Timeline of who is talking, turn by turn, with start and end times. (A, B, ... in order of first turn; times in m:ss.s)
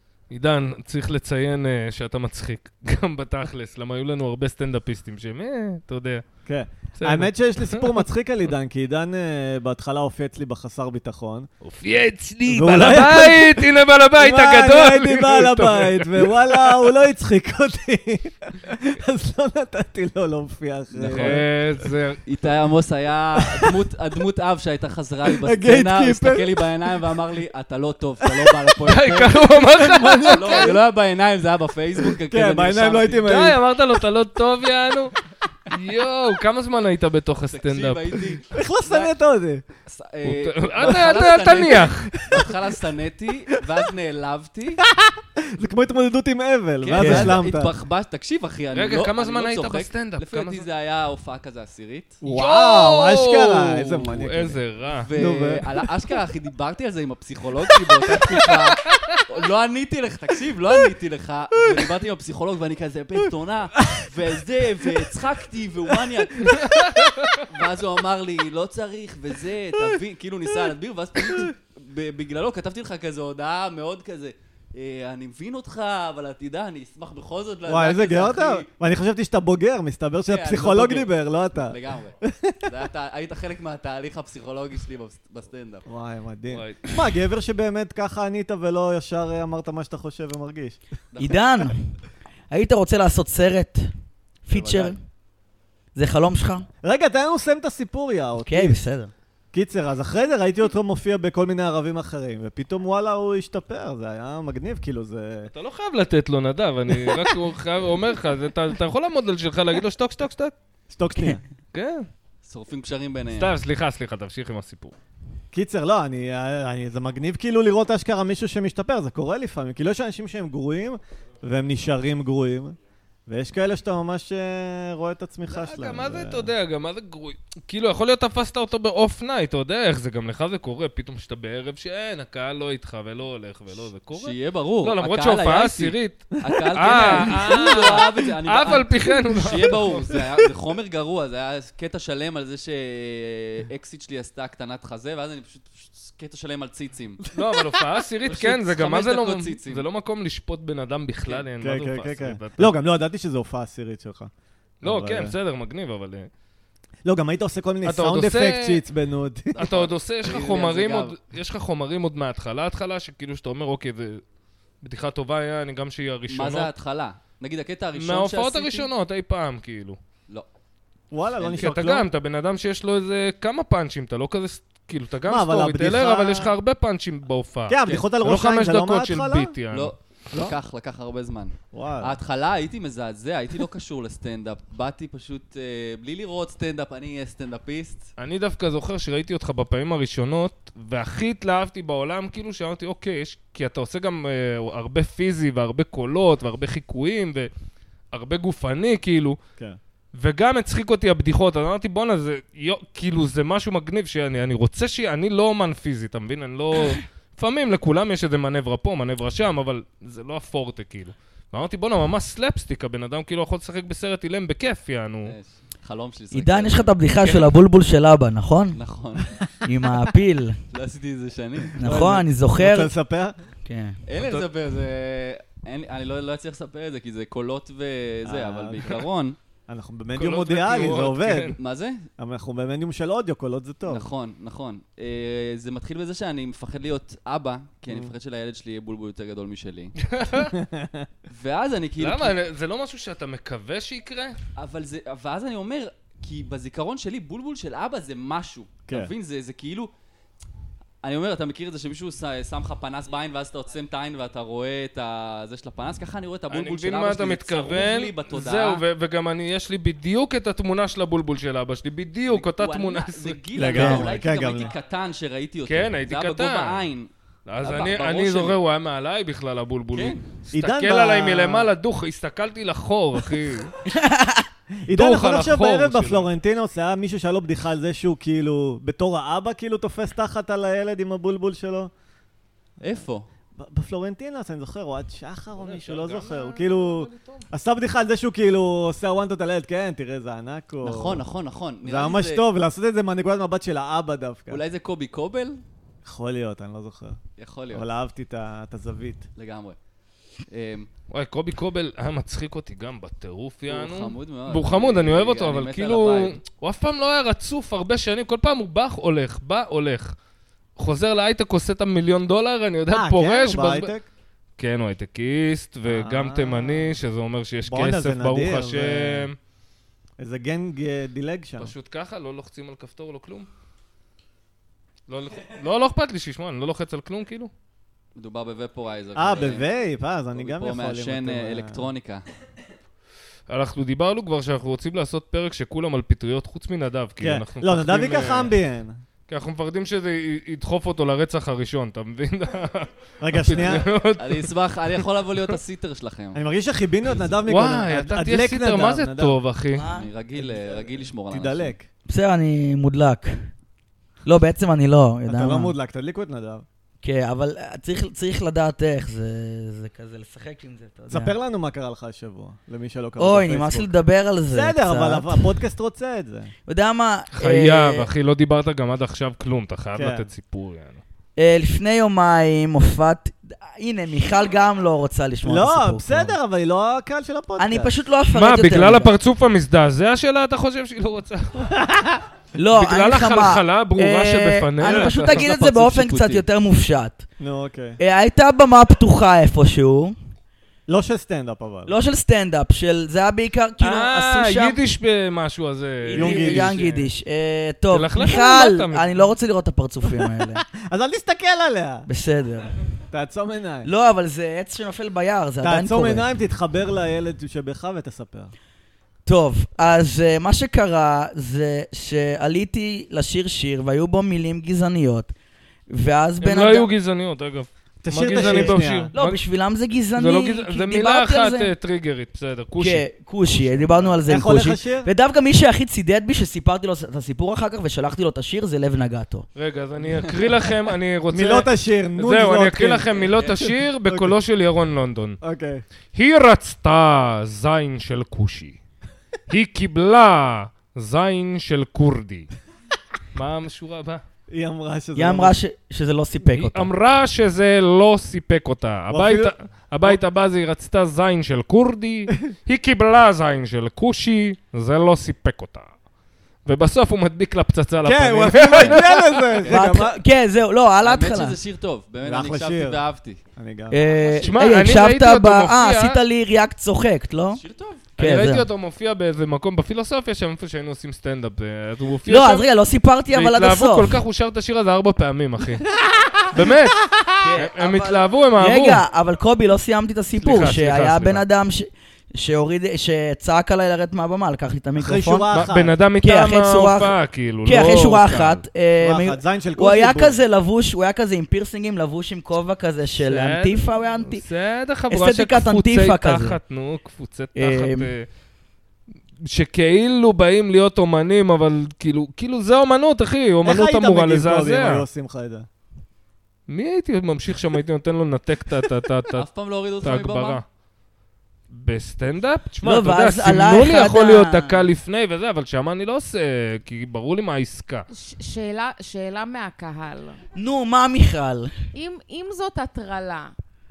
0:00.3-0:06.2 A
0:06.5-0:11.5 B
0:07.0-0:08.1 A
0:11.6-0:16.9 A
0:12.5-0:21.4 B
0:20.9-0:21.5 C
0:21.1-0:22.2 A
0:22.2-0:29.4 C
0:25.4-0:26.6 B
0:28.3-0:28.7 B
0:28.9-0:30.8 A
0:29.4-0:30.8 B
0:30.3-0:33.3 C
0:32.3-0:33.6 B
0:33.2-0:38.3 A
0:37.5-0:39.1 C
0:38.5-0:39.6 B
0:39.8-0:44.8 C
0:40.2-0:42.2 A
0:42.0-0:42.6 B
0:44.9-0:47.7 B
0:46.8-0:52.2 C
0:46.9-0:47.4 D
0:48.7-0:50.6 A
0:52.2-0:54.6 B
0:52.2-0:55.1 A
0:54.9-1:06.6 C
0:55.1-0:55.6 B
0:58.2-0:58.5 B
0:58.9-0:59.2 A
1:03.8-1:04.1 B
1:06.5-1:07.4 B
1:06.6-1:07.4 A
1:07.4-1:18.7 C
1:11.2-1:11.5 B
1:17.7-1:22.7 B
1:20.3-1:25.9 C
1:25.9-1:30.8 B
1:26.5-1:27.1 A
1:31.1-1:31.4 C
1:31.2-1:31.9 D
1:32.5-1:33.9 D
1:34.5-1:35.0 D
1:34.5-1:35.0 B
1:36.0-1:36.7 D
1:36.8-1:38.8 B
1:38.4-1:39.1 D
1:39.5-1:45.5 B
1:45.5-1:50.5 A
1:50.9-1:51.4 B
1:51.7-1:52.1 A
1:52.4-1:53.5 C
1:53.3-1:55.0 A
1:55.5-2:02.8 B
2:03.3-2:06.5 B
2:05.5-2:20.0 A
2:14.1-2:27.3 C
2:16.8-2:18.1 B
2:27.3-2:32.8 A
2:28.2-2:29.9 C
2:31.6-2:34.3 B
2:34.8-2:36.3 A
2:34.8-2:35.4 B
2:37.0-2:39.6 B
2:37.8-2:38.8 A
2:39.5-2:41.2 C
2:39.6-2:44.2 A
2:44.8-2:46.7 A
2:46.3-2:48.9 C
2:48.0-2:50.0 A
2:51.1-2:52.1 B
2:51.4-2:51.7 C
2:51.6-2:59.9 A
2:55.3-2:56.5 B
2:57.7-2:59.5 B
2:59.7-3:08.1 C
3:01.7-3:02.2 B
3:08.2-3:17.5 A
3:18.1-3:19.4 A
3:20.2-3:35.3 A
3:35.2-3:36.9 C
3:36.3-3:38.8 D
3:37.2-3:37.5 A
3:38.7-3:39.4 C
3:39.6-3:40.6 D
3:40.7-3:41.8 C
3:41.8-3:43.0 D
3:41.8-3:43.4 B
3:43.6-3:44.0 D
3:44.1-3:49.4 C
3:44.2-3:44.5 A
3:48.3-3:49.0 B
3:49.7-3:51.6 B
3:50.2-3:51.6 A
3:51.6-3:52.1 C
3:52.2-3:54.1 B
3:53.9-4:00.0 C
4:00.1-4:00.6 A
4:00.5-4:01.1 B
4:01.3-4:02.4 C
4:02.0-4:04.4 A
4:04.6-4:09.9 C
4:11.0-4:18.8 C
4:16.5-4:24.0 A
4:22.3-4:27.1 C
4:23.6-4:24.7 B
4:23.7-4:24.0 D
4:25.7-4:26.9 A
4:27.5-4:33.7 A
4:27.6-4:28.6 C
4:29.9-4:30.2 C
4:30.5-4:31.7 B
4:33.9-4:34.5 D
4:34.8-4:41.9 B
4:34.9-4:36.3 A
4:42.8-4:43.3 C
4:43.6-4:51.2 B
4:45.6-4:47.5 A
4:50.8-4:52.4 C
4:51.8-4:54.6 B
4:54.5-4:55.6 C
4:56.0-4:57.2 B
4:57.4-4:57.9 C
4:57.7-4:59.2 B
4:59.4-4:59.8 C
5:00.5-5:00.9 C
5:01.1-5:10.1 A
5:03.7-5:06.4 C
5:10.8-5:13.9 A
5:12.9-5:14.1 B
5:14.6-5:19.4 A
5:15.9-5:17.0 B
5:17.7-5:19.3 B
5:20.2-5:21.7 B
5:21.6-5:23.5 A
5:25.1-5:27.5 A
5:28.2-5:29.7 C
5:29.2-5:31.9 B
5:30.3-5:32.2 C
5:33.5-5:38.6 A
5:37.2-5:39.0 B
5:39.3-5:44.5 A
5:43.2-5:43.8 B
5:44.2-5:46.4 C
5:46.3-5:49.4 B
5:47.4-5:49.9 A
5:49.7-5:50.1 D
5:49.9-5:51.7 C
5:50.4-5:51.9 B
5:52.1-5:53.5 D
5:54.2-5:55.8 D
5:55.3-5:56.6 B
5:57.0-6:01.4 D
6:01.1-6:03.9 B
6:03.2-6:05.6 D
6:04.5-6:06.5 B
6:06.7-6:08.1 D
6:07.3-6:11.0 A
6:10.0-6:10.3 B
6:11.4-6:16.4 D
6:15.5-6:17.9 B
6:17.6-6:19.2 D
6:18.3-6:21.7 A
6:21.7-6:22.2 B
6:22.6-6:27.2 D
6:22.8-6:25.4 A
6:24.8-6:26.4 C
6:27.4-6:28.0 B
6:28.0-6:30.2 D
6:30.9-6:32.0 B
6:31.9-6:34.8 D
6:33.8-6:37.1 A
6:36.0-6:40.6 D
6:36.1-6:36.7 B
6:37.9-6:39.2 A
6:40.1-6:42.1 B
6:42.1-6:42.8 D
6:43.1-6:43.9 B
6:43.8-6:46.3 D
6:45.6-6:48.5 B
6:49.3-6:55.3 D
6:55.9-6:56.9 D
6:56.4-6:59.4 A
6:58.0-6:59.1 B
6:58.3-7:01.7 D
7:00.2-7:03.1 A
7:02.8-7:09.5 D
7:03.6-7:04.1 A
7:04.2-7:05.1 B
7:09.6-7:15.4 A
7:11.3-7:14.4 B
7:15.4-7:15.8 B
7:16.1-7:18.8 A
7:19.5-7:22.5 A
7:23.3-7:24.2 A
7:24.5-7:25.5 B
7:25.2-7:26.9 D
7:26.5-7:35.9 A
7:29.1-7:29.5 B
7:36.6-7:39.8 A
7:38.0-7:40.2 B
7:39.6-7:41.6 D
7:41.0-7:43.4 C
7:42.2-7:43.0 B
7:43.6-7:44.0 B
7:43.9-7:47.6 D
7:44.1-7:44.6 C
7:44.4-7:46.2 A
7:47.5-7:48.0 C
7:48.2-7:48.7 D
7:48.2-7:52.7 A
7:52.3-7:54.2 D
7:53.3-7:55.9 A
7:56.5-7:59.0 A
7:57.4-8:05.5 D
8:00.4-8:01.4 A
8:05.0-8:06.0 B
8:05.5-8:08.6 A
8:06.2-8:14.4 D
8:09.0-8:10.4 B
8:13.2-8:18.3 A
8:15.1-8:16.6 D
8:17.6-8:18.1 D
8:19.4-8:25.0 A
8:23.6-8:25.7 B
8:26.7-8:29.4 A
8:29.3-8:30.6 C
8:30.0-8:30.6 A
8:31.7-8:38.1 A
8:32.8-8:34.9 D
8:38.1-8:40.4 E
8:40.6-8:41.8 D
8:41.9-8:43.5 E